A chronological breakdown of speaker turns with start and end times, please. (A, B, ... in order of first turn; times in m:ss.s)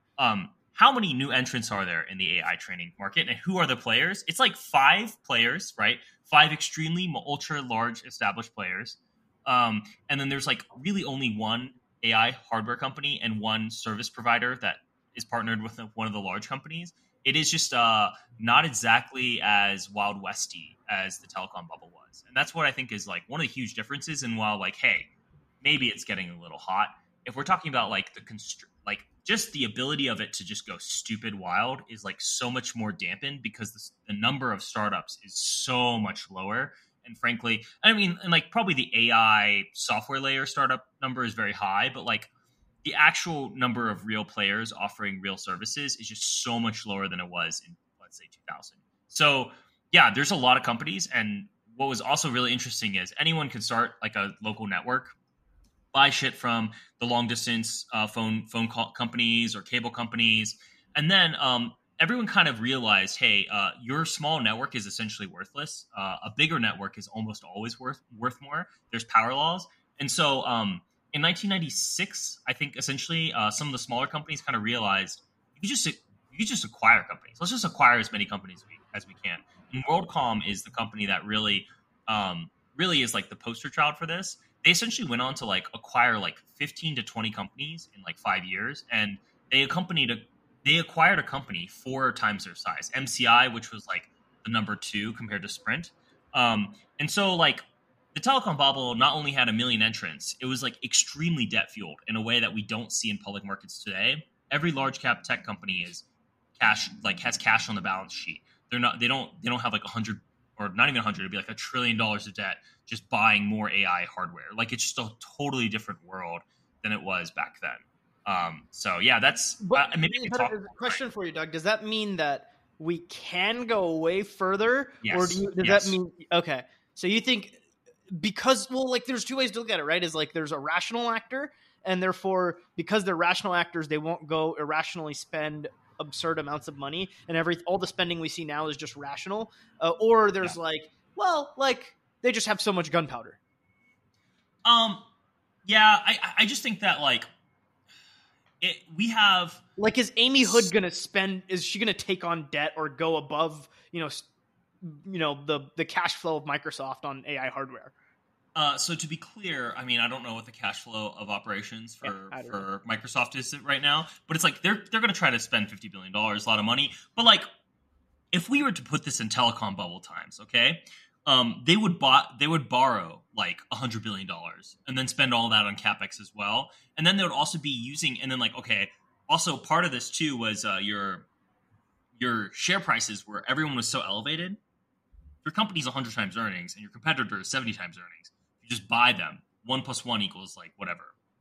0:00.2-0:25.1 A
0:25.6-0:42.3 A
0:42.8-0:55.2 A
0:55.9-1:46.1 A
1:46.6-2:01.0 A
1:59.6-2:07.6 B
2:05.0-2:06.0 A
2:08.1-2:23.4 B
2:24.6-2:25.1 A
2:25.6-2:27.3 A
2:28.6-2:29.6 A
2:29.8-2:34.2 B
2:30.4-2:30.7 A
2:34.8-2:37.9 B
2:38.6-2:47.5 A
2:42.0-2:42.6 B
2:48.3-3:01.3 A
3:02.2-3:04.6 A
3:05.4-3:11.1 A